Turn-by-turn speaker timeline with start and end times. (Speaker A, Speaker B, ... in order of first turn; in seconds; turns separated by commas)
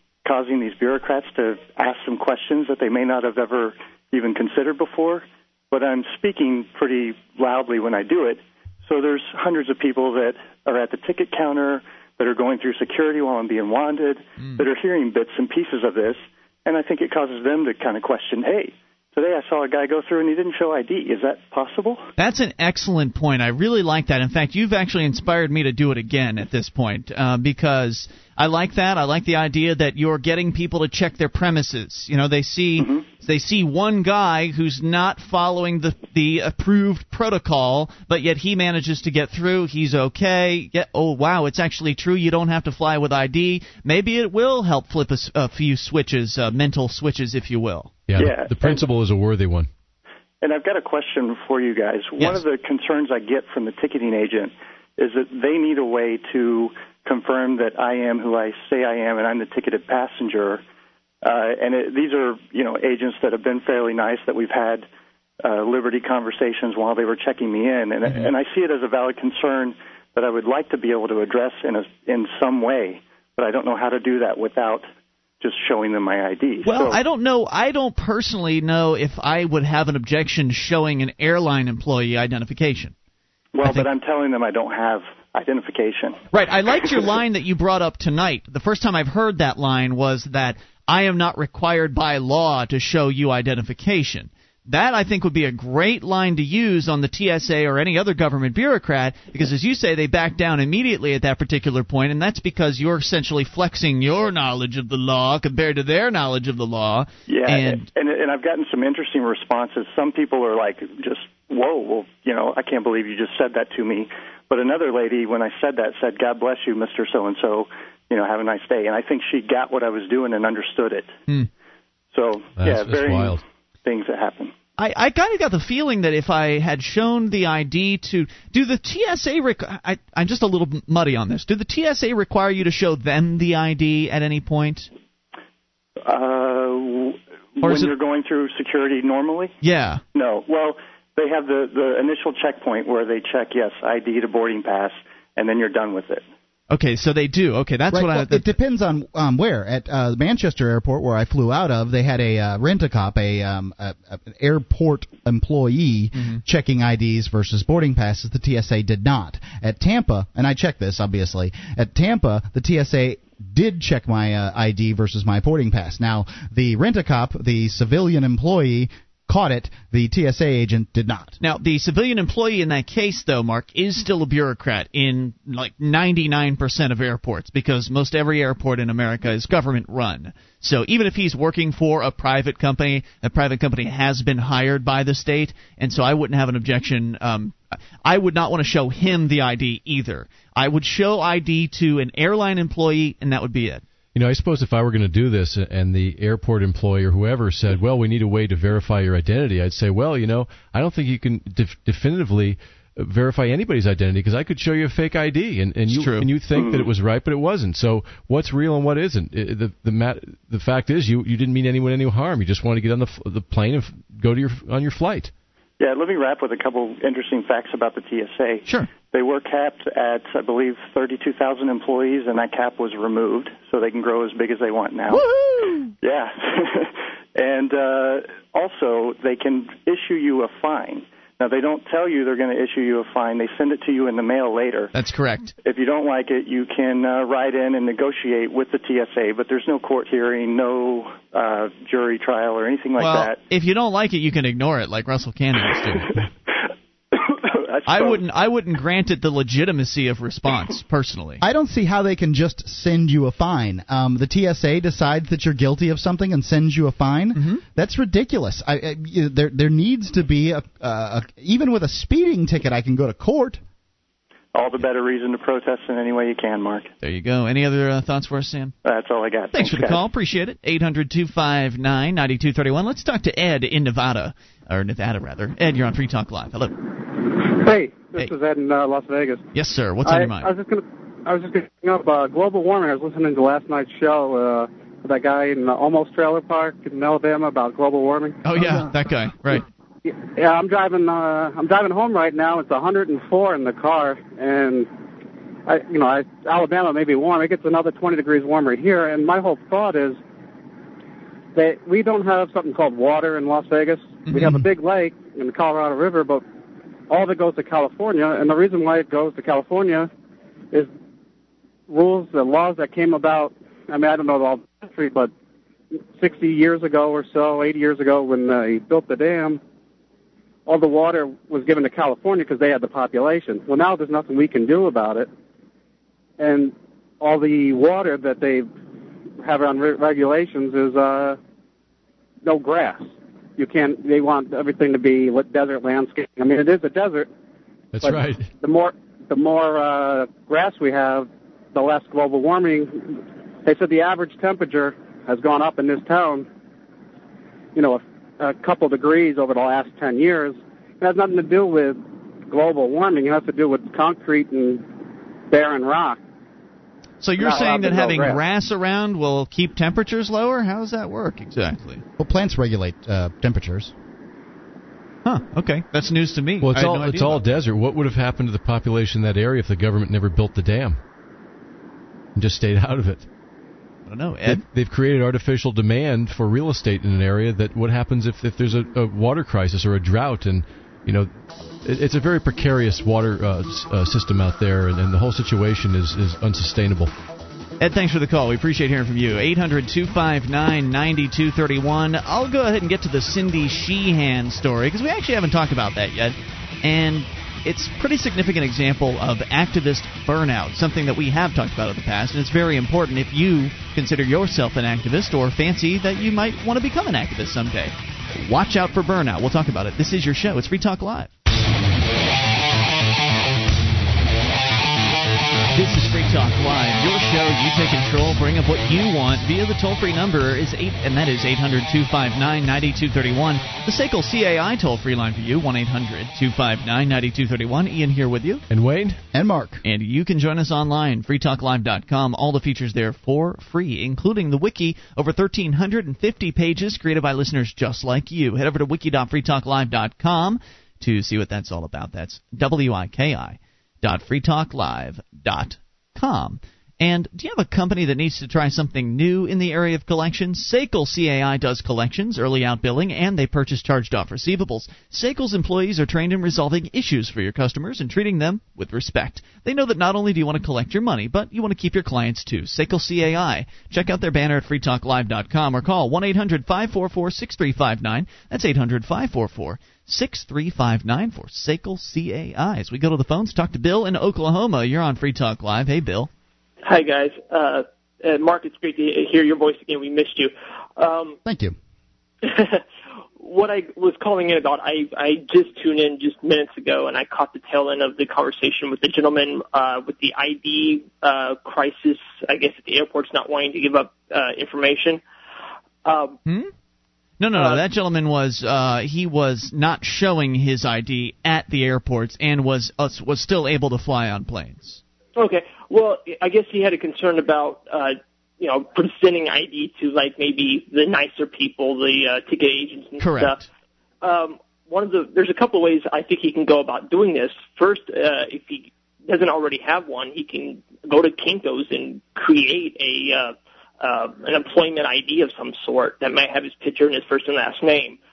Speaker A: 0.2-22.0, Speaker B: 22.2-47.9, Speaker C: 48.1-49.7, Speaker A: 48.1-48.8, Speaker A: 50.4-60.6, Speaker A: 61.2-64.8, Speaker A: 65.4-74.8, Speaker A: 75.4-77.0, Speaker B: 76.6-82.9, Speaker A: 83.5-86.2, Speaker B: 86.3-107.8, Speaker A: 107.3-121.1, Speaker A: 122.1-124.5, Speaker C: 122.6-123.4, Speaker B: 124.8-134.9, Speaker A: 136.0-139.5, Speaker B: 137.6-137.9, Speaker B: 139.6-140.0, Speaker A: 140.1-146.2, Speaker B: 146.7-148.5, Speaker D: 147.9-171.4, Speaker B: 156.1-156.4, Speaker B: 171.4-193.8, Speaker C: 194.1-215.3, Speaker B: 205.9-206.3, Speaker A: 206.5-206.9, Speaker A: 215.8-225.3, Speaker B: 225.1-225.9, Speaker A: 226.0-234.9, Speaker B: 234.9-235.5, Speaker A: 235.6-243.4, Speaker B: 243.0-246.1, Speaker A: 247.1-248.2, Speaker B: 247.9-251.4, Speaker D: 251.4-263.6, Speaker B: 257.3-257.6, Speaker A: 264.5-266.9, Speaker B: 267.0-268.7, Speaker A: 268.8-270.0, Speaker B: 269.5-276.8, Speaker E: 277.4-279.4, Speaker B: 279.5-280.5, Speaker E: 280.0-288.9, Speaker B: 288.4-289.6, Speaker E: 290.1-294.9, Speaker E: 295.7-300.2, Speaker E: 301.5-306.4, Speaker B: 304.2-304.6, Speaker E: 307.1-310.1, Speaker E: 311.9-315.3, Speaker E: 316.2-319.6, Speaker E: 320.7-325.3, Speaker E: 326.4-328.7, Speaker E: 329.4-331.4, Speaker E: 332.4-337.3, Speaker C: 337.9-338.5, Speaker E: 338.0-346.5, Speaker E: 347.8-354.9, Speaker E: 355.5-356.2, Speaker B: 357.2-362.0, Speaker E: 357.4-358.4, Speaker D: 362.2-363.9, Speaker B: 365.2-367.4, Speaker C: 366.6-371.0, Speaker C: 372.4-373.3, Speaker B: 374.1-374.6, Speaker C: 374.5-381.3, Speaker C: 381.8-387.2, Speaker B: 387.8-411.3, Speaker B: 415.7-428.6, Speaker C: 428.7-429.2, Speaker D: 429.3-429.8, Speaker B: 429.8-476.3, Speaker F: 476.8-481.4, Speaker D: 481.4-481.8, Speaker F: 482.4-482.8, Speaker F: 483.4-495.2, Speaker F: 496.0-496.4, Speaker B: 496.4-496.7, Speaker B: 497.4-505.0, Speaker F: 497.5-497.8, Speaker F: 505.3-513.6, Speaker B: 513.2-513.6, Speaker F: 514.2-528.2